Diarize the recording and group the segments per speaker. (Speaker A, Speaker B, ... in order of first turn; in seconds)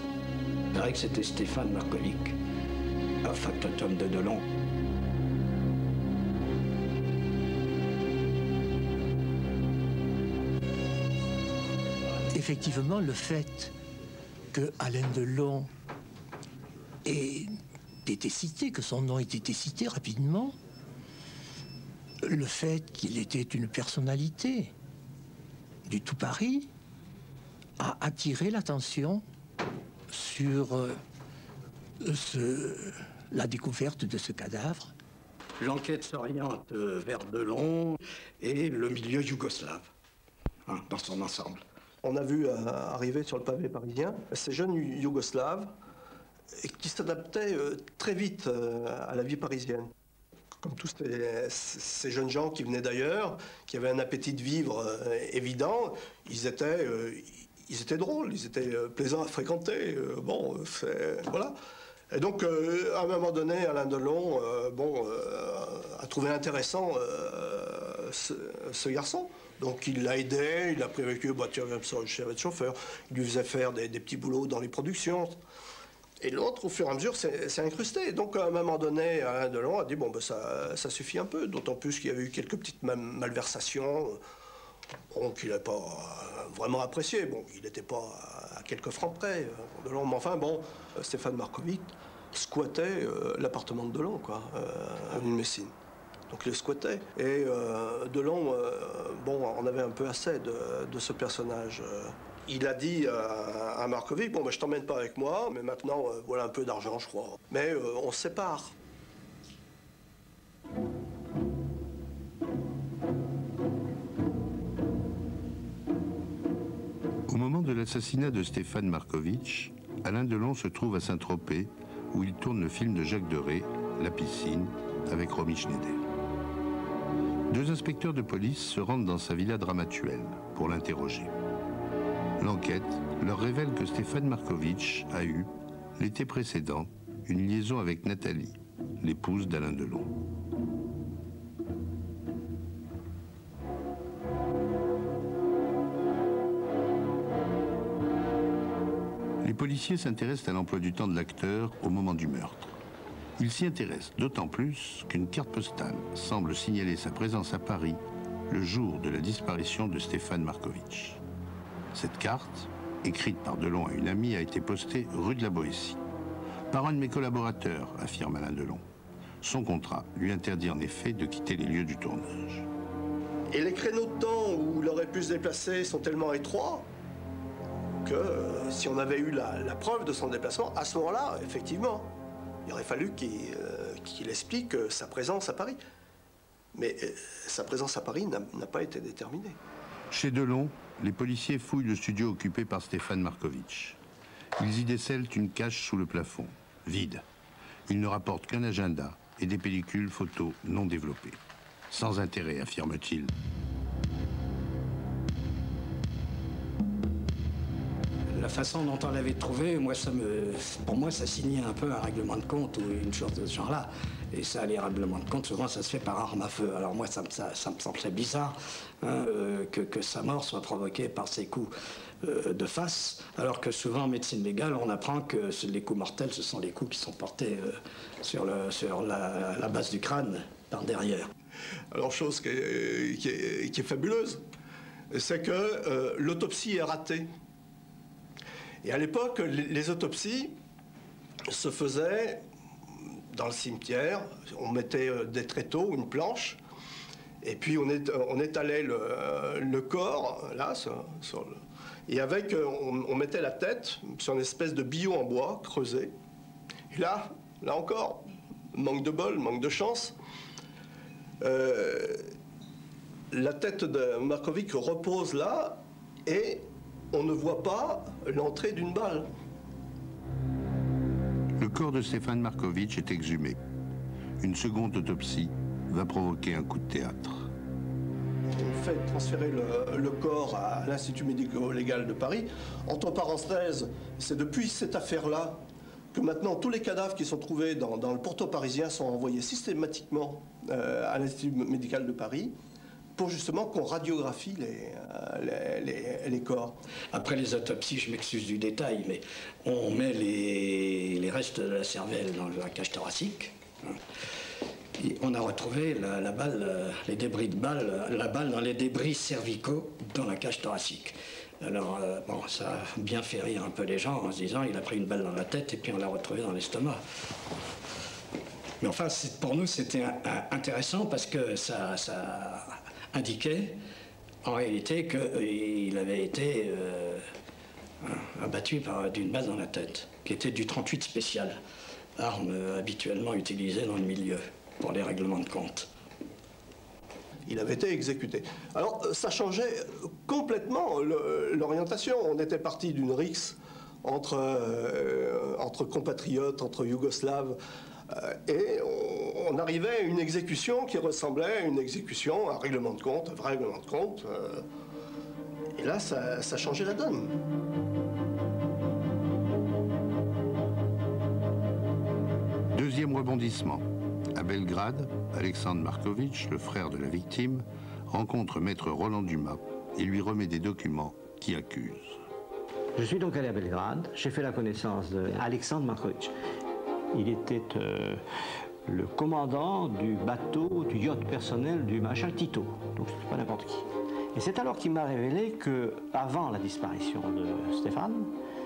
Speaker A: 0.7-2.4, 3.2-4.4, 35.6-39.9, 40.7-41.6, 208.3-221.7, 222.2-231.3, 297.1-303.9, 305.0-317.0, 318.8-323.8, 324.4-327.2, 328.0-331.6, 332.2-335.9
Speaker B: 12.3-13.7, 14.5-15.7, 17.1-17.5, 18.1-20.6, 22.2-24.7, 25.9-26.7, 27.8-29.2, 30.1-31.0, 32.0-34.9
Speaker C: 42.0-45.7, 46.6-49.9, 50.6-61.5, 62.1-75.4, 76.2-84.2, 85.1-95.7, 96.3-108.7, 173.5-176.9, 178.0-182.1, 182.7-185.8, 186.7-189.6, 231.9-234.4, 235.1-237.3, 238.8-240.5, 241.5-242.4, 243.3-246.6, 247.4-256.1, 256.9-258.2, 258.7-260.2, 261.4-262.3, 263.3-269.3, 278.5-285.6, 286.1-292.6, 293.2-296.8, 337.5-347.6, 348.1-354.6, 355.8-357.3
Speaker D: 117.3-126.0, 127.5-131.3, 132.4-140.1, 149.4-152.7, 153.4-161.2, 161.9-166.0, 166.7-168.8, 169.4-172.7, 190.1-194.0, 194.6-197.2, 197.9-201.4, 201.9-203.3, 271.6-273.6, 274.4-277.5, 362.7-372.2
Speaker E: 372.9-376.3, 377.1-378.2, 378.9-388.3